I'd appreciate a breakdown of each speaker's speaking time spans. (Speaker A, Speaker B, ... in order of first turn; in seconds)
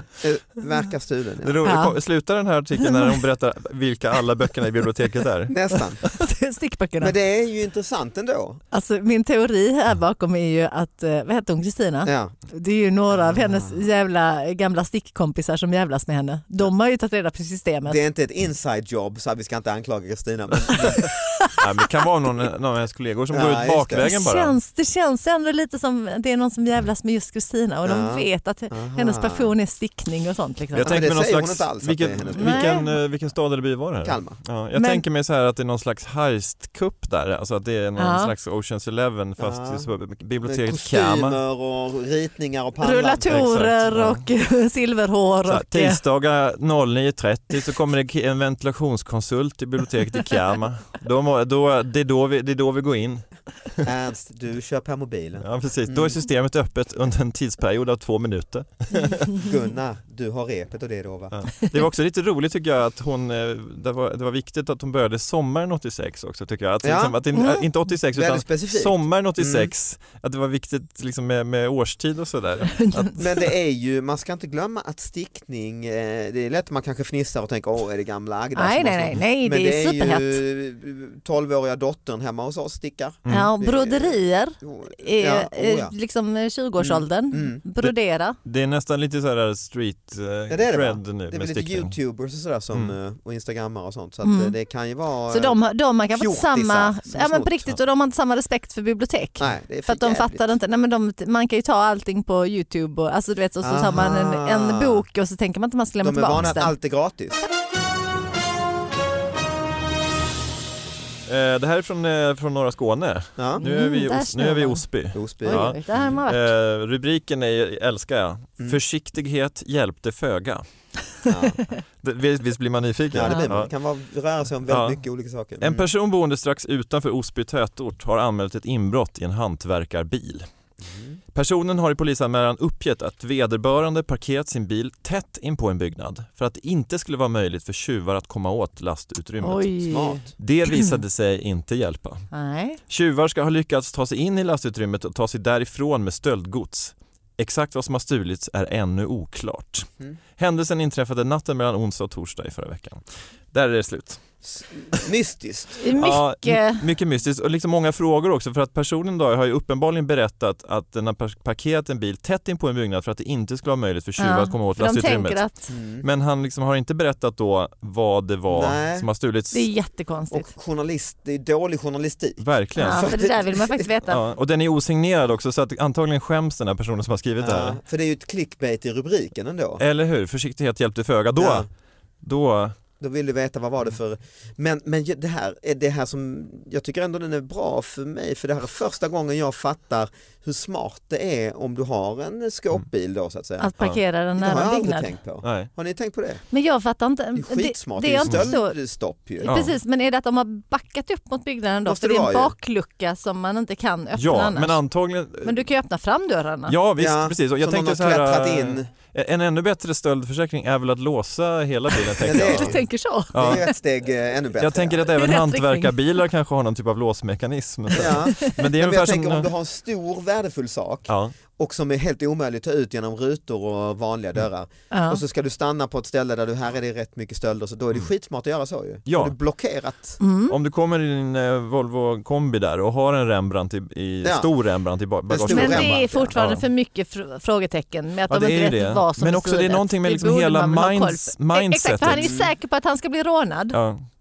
Speaker A: 0.2-1.6, 5.5-6.0, 7.0-8.6, 12.1-12.3, 13.2-13.8, 17.9-21.1, 23.3-24.1, 27.9-29.5, 30.8-32.7, 34.0-34.4, 39.4-39.9, 40.5-43.5, 53.8-56.2, 59.2-61.4, 66.8-67.2, 68.1-69.7, 73.2-85.9, 86.8-87.6, 90.5-95.6, 96.2-97.8, 99.4-100.5, 103.6-105.0, 106.0-107.4, 115.1-116.2, 121.3-121.6, 123.1-125.9, 130.8-131.2, 139.8-140.3, 154.4-155.8, 165.7-166.1, 168.5-169.1, 170.3-173.9, 177.4-179.8, 181.4-181.7, 183.0-193.7, 194.4-196.4, 197.3-199.6, 201.9-202.6, 207.0-208.9, 212.2-215.2, 217.9-230.2, 234.2-234.5, 235.3-236.3, 242.0-242.5
Speaker B: 1.4-6.2, 21.6-24.6, 30.8-41.4, 43.3-44.2, 45.5-53.9, 55.4-59.3, 61.3-73.2, 83.3-83.5, 87.8-92.0, 111.3-120.6, 122.0-123.7, 124.7-125.0, 125.6-130.5, 131.3-139.7, 140.4-142.3, 142.9-154.2, 155.9-165.4, 166.0-169.7, 172.4-173.2, 174.1-177.8, 179.8-181.7, 182.2-182.8, 195.4-195.7, 199.4-199.7, 204.2-205.6, 206.7-212.8, 213.3-213.7, 214.6-219.5, 221.1-221.3, 229.1-229.3, 230.5-236.7, 238.3-242.3, 243.7-244.0
Speaker C: 1.6-1.9, 2.8-3.2, 6.1-7.2, 8.7-18.0, 20.8-21.6, 24.0-31.0, 32.4-32.9, 34.7-35.0, 38.0-38.3, 42.8-46.0, 67.3-67.7, 72.7-73.2, 78.5-80.4, 83.3-88.4, 94.2-94.5, 95.3-106.7, 113.6-114.9, 115.4-116.5, 123.2-123.5, 139.4-140.9, 142.3-142.8, 155.8-156.8, 164.2-165.7, 169.5-170.5, 172.8-174.2, 193.6-195.1, 196.5-198.8, 199.4-204.8, 205.4-206.8, 212.2-213.7, 215.1-216.0, 218.1-218.6, 224.9-225.2, 230.2-230.6, 235.5-243.8